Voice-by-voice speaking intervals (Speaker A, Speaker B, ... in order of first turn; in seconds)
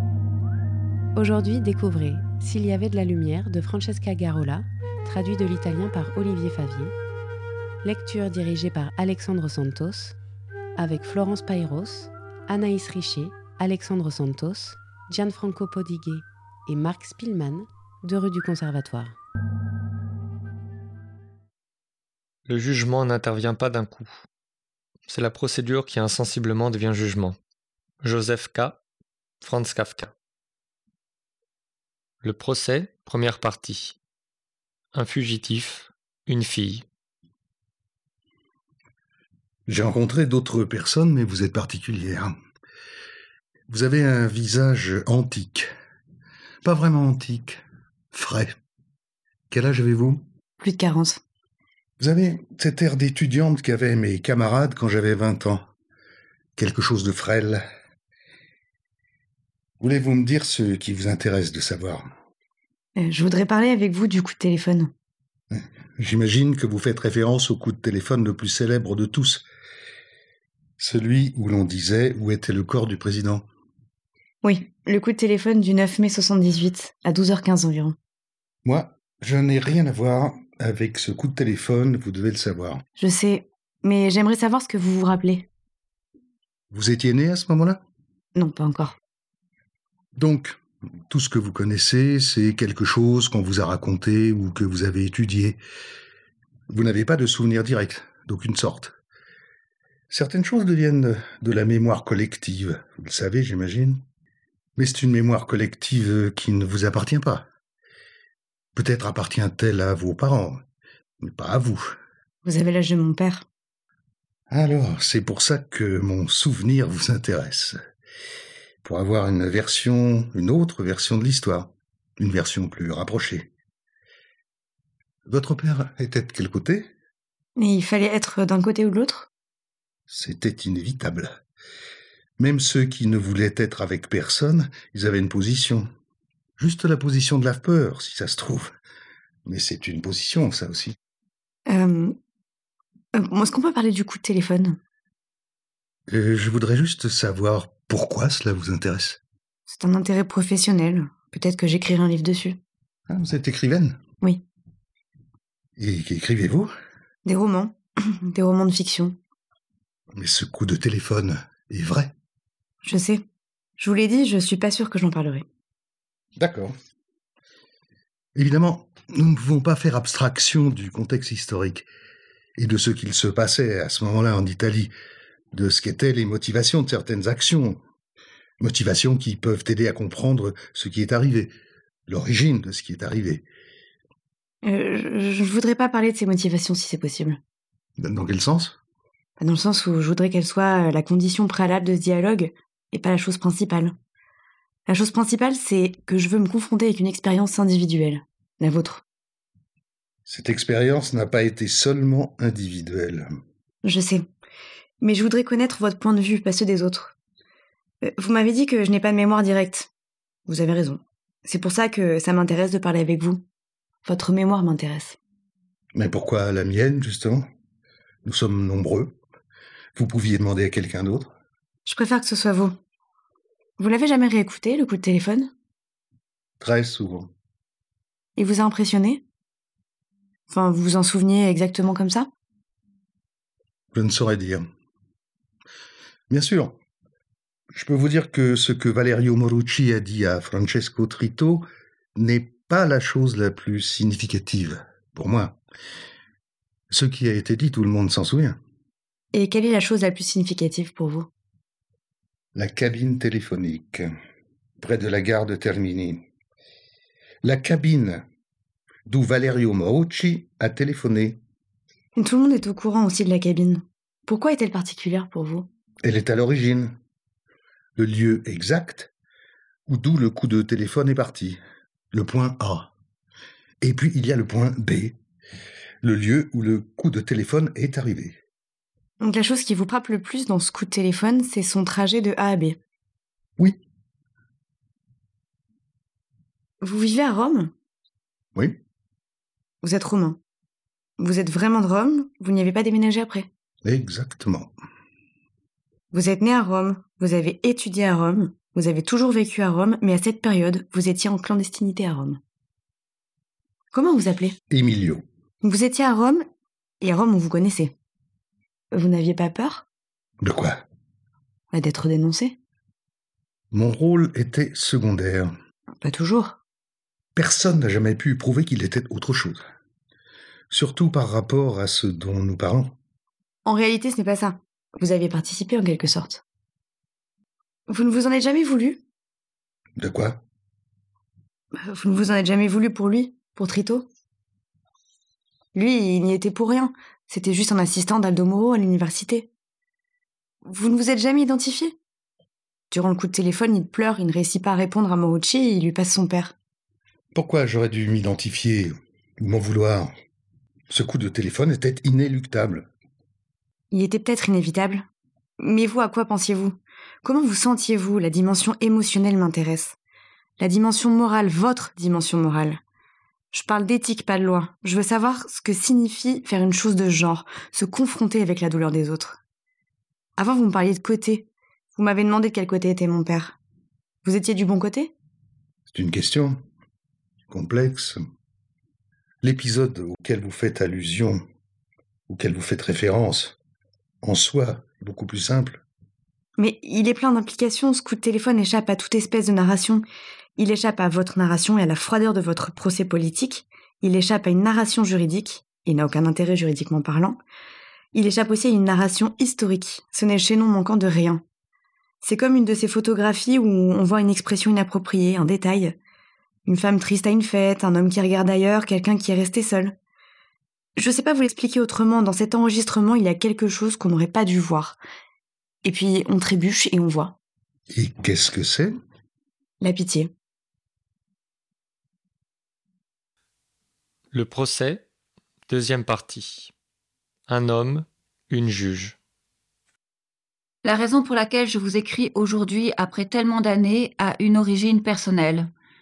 Speaker A: 1.2-5.2, 6.5-6.8, 8.4-10.1, 11.0-16.2, 16.8-19.1
Speaker B: 22.5-24.1, 25.1-27.4, 28.0-28.8, 29.4-30.1, 32.2-34.0, 34.9-36.9, 424.3-425.0, 425.7-426.7, 427.5-429.2
Speaker C: 39.7-42.3, 43.7-45.7, 46.6-47.6, 48.1-48.5, 49.5-50.2, 52.0-55.7, 56.6-57.6, 59.8-62.1, 65.5-69.5, 70.8-73.5, 78.7-82.8, 86.7-87.8, 90.2-95.6, 96.7-99.0, 100.1-104.0, 104.8-107.5, 108.8-110.6, 111.2-112.0, 114.5-117.8, 118.8-123.5, 125.3-126.9, 130.1-131.3, 132.4-135.9, 136.6-138.7, 139.5-140.9, 146.1-149.2, 153.1-154.0, 155.8-156.7, 160.2-162.1, 166.4-166.7, 168.4-171.8, 172.6-174.9, 175.5-177.8, 178.6-181.5, 182.1-183.4, 188.0-188.8, 200.3-203.3, 215.9-217.4, 218.2-219.2, 219.9-221.3, 226.6-227.3, 233.9-234.7, 236.3-236.8, 237.7-241.7, 242.2-245.6, 246.9-248.6, 252.6-254.1, 254.8-256.2, 257.4-258.2, 259.1-261.4, 266.0-266.9, 268.0-269.1, 269.9-271.6, 272.1-272.9, 273.8-275.2, 276.0-278.4, 293.8-294.7, 304.7-305.2, 310.4-310.8, 313.7-315.5, 317.4-319.6, 320.7-322.9, 330.0-330.4, 347.4-350.1, 350.9-352.9, 375.9-376.6, 377.5-378.2, 379.4-381.4, 382.3-383.6, 384.2-385.8, 417.9-418.9
Speaker D: 50.6-51.2, 63.0-64.9, 74.4-78.0, 83.0-85.5, 88.4-89.0, 112.5-113.5, 127.6-129.3, 141.7-142.2, 143.2-144.8, 149.7-152.6, 157.2-159.2, 162.8-163.2, 163.8-165.4, 184.6-187.4, 189.4-193.9, 194.9-199.0, 203.8-204.3, 205.0-207.1, 208.1-209.9, 210.5-213.4, 214.1-215.2, 221.9-222.7, 223.8-225.5, 228.4-229.2, 230.5-232.3, 249.3-251.3, 262.2-265.7, 279.2-282.8, 286.8-287.7, 289.8-290.4, 291.2-293.5, 296.1-302.4, 303.9-304.6, 305.6-306.4, 307.0-307.9, 308.9-309.9, 311.7-312.6, 316.0-316.6, 323.6-326.4, 327.9-329.0, 331.8-334.1, 335.8-339.5, 340.6-341.9, 342.9-346.5, 353.9-355.1, 355.6-360.0, 360.6-362.8, 363.5-369.4, 370.4-373.6, 374.2-375.1, 386.6-390.0, 390.6-397.4, 398.1-401.4, 402.2-405.9, 406.7-409.9, 411.0-415.0, 415.9-417.4, 419.8-420.3
Speaker E: 430.8-435.7